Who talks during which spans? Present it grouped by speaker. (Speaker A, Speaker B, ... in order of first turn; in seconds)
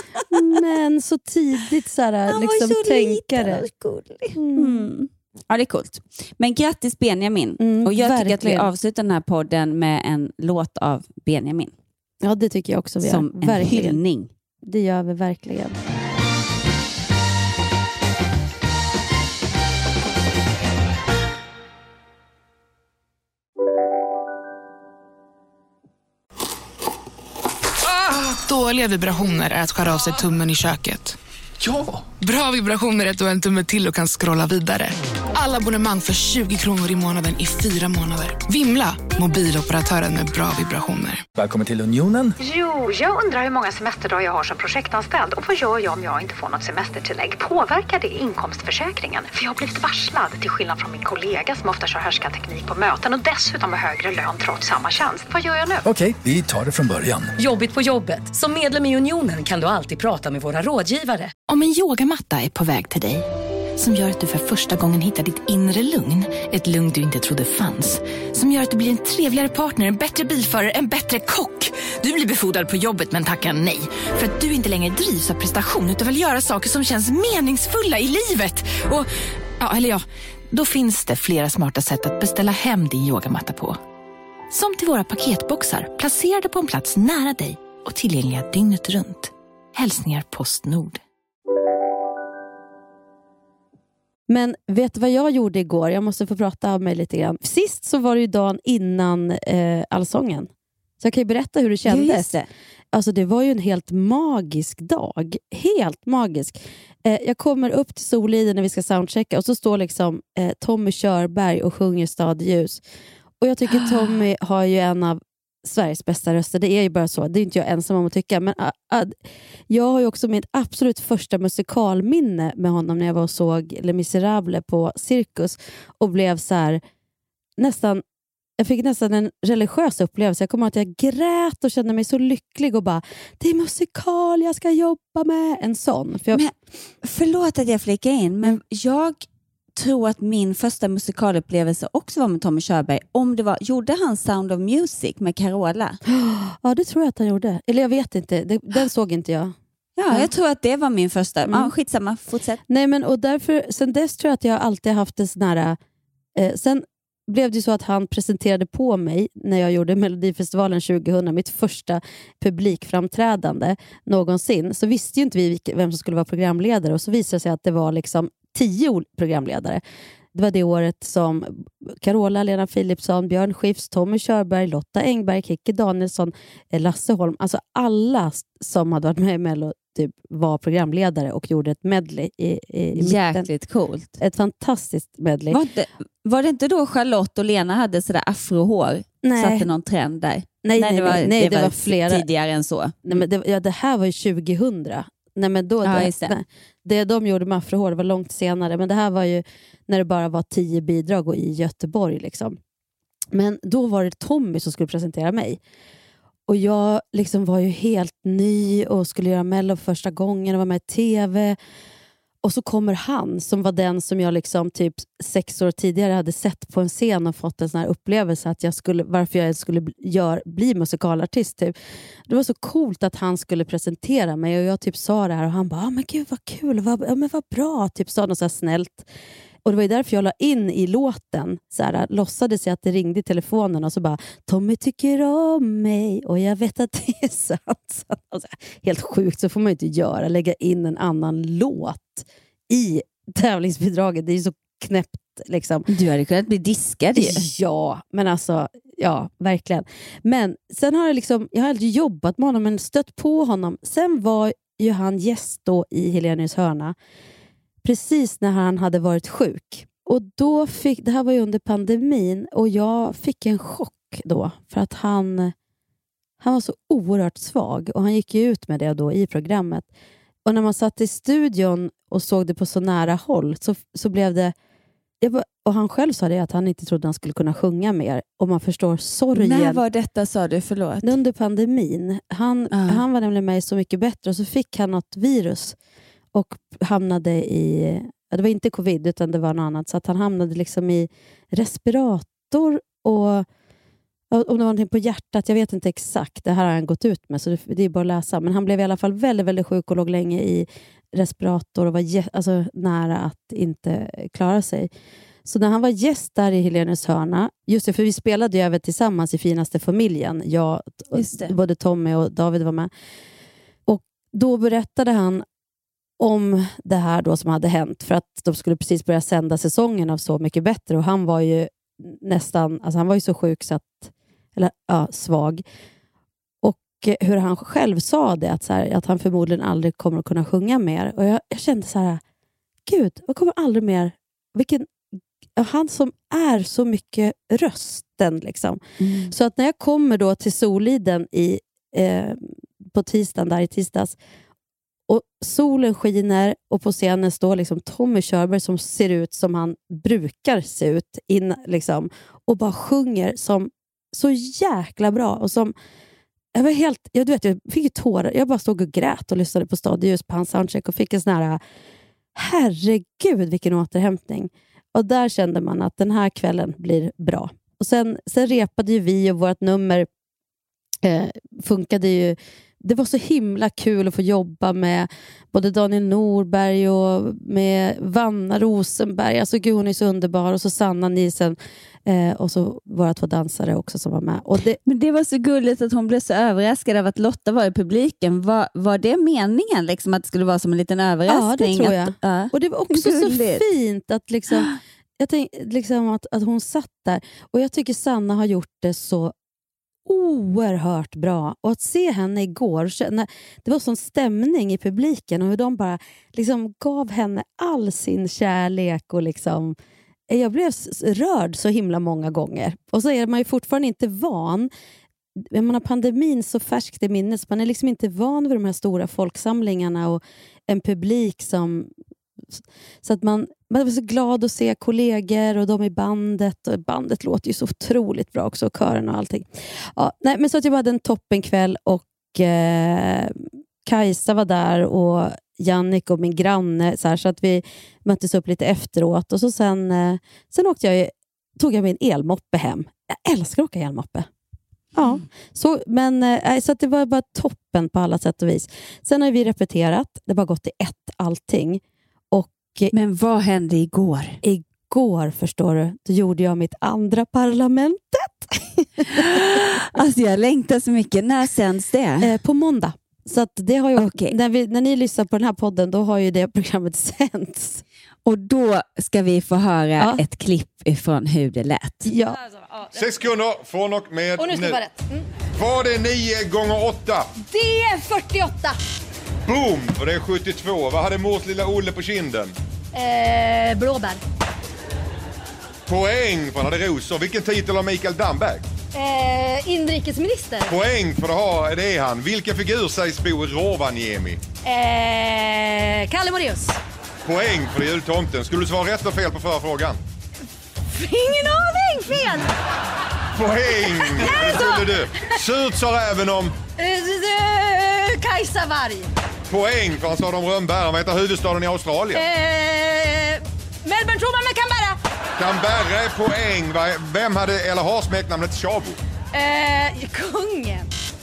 Speaker A: 0.3-3.6, 4.3-4.9, 7.6-8.7, 12.2-14.0, 14.6-15.8, 94.3-100.5, 101.0-102.3, 102.9-112.8, 113.4-119.2, 119.7-126.8, 127.6-128.0, 128.6-136.4, 146.1-149.5, 151.5-151.7, 152.7-155.8, 156.3-169.8, 170.3-183.4, 184.2-185.6, 189.2-189.7, 190.6-192.2, 193.1-202.6, 203.3-205.6, 206.5-211.6, 212.4-221.7, 222.3-229.1, 229.6-245.9, 247.2-256.9, 257.8-265.5, 266.4-269.9, 270.4-274.5, 275.2-279.8, 281.0-285.8, 286.3-293.4, 294.3-304.9, 305.4-312.9, 313.9-315.4, 316.2-325.6, 326.6-332.2, 332.9-334.9, 335.6-344.2, 345.1-355.7, 356.5-361.6, 362.3-370.1, 371.0-384.8, 391.3-394.7, 395.2-399.3, 400.1-409.8, 410.3-414.7, 415.4-421.9, 422.5-444.3, 444.9-451.8, 452.3-452.9, 454.4-459.3, 462.2-467.8, 472.1-472.4
Speaker B: 2.3-11.7, 13.0-14.3, 101.8-102.5, 136.3-139.2, 139.7-146.0, 150.0-152.6, 182.9-184.2, 185.5-193.2, 195.8-196.4, 245.9-247.4, 279.3-281.1, 282.7-283.0, 311.1-311.5, 339.0-339.3, 384.9-393.6, 394.5-394.8, 452.9-454.4, 459.1-462.3, 464.0-464.3, 468.2-472.0
Speaker C: 27.8-31.2, 32.2-41.2
Speaker D: 41.3-42.4, 55.8-57.3
Speaker E: 42.4-55.9
Speaker F: 57.4-61.3
Speaker G: 61.5-83.8, 84.5-91.0
Speaker H: 472.5-473.0, 474.4-475.2, 477.5-478.8, 482.9-484.2, 488.9-490.7, 494.6-496.8, 500.9-502.5, 504.0-505.4, 506.8-509.1, 512.1-515.0, 519.3-520.9
Speaker I: 472.9-474.8, 475.5-477.3, 479.5-482.5, 485.9-488.6, 490.7-494.4, 497.2-500.0, 503.3-506.5, 509.5-512.2, 515.4-519.0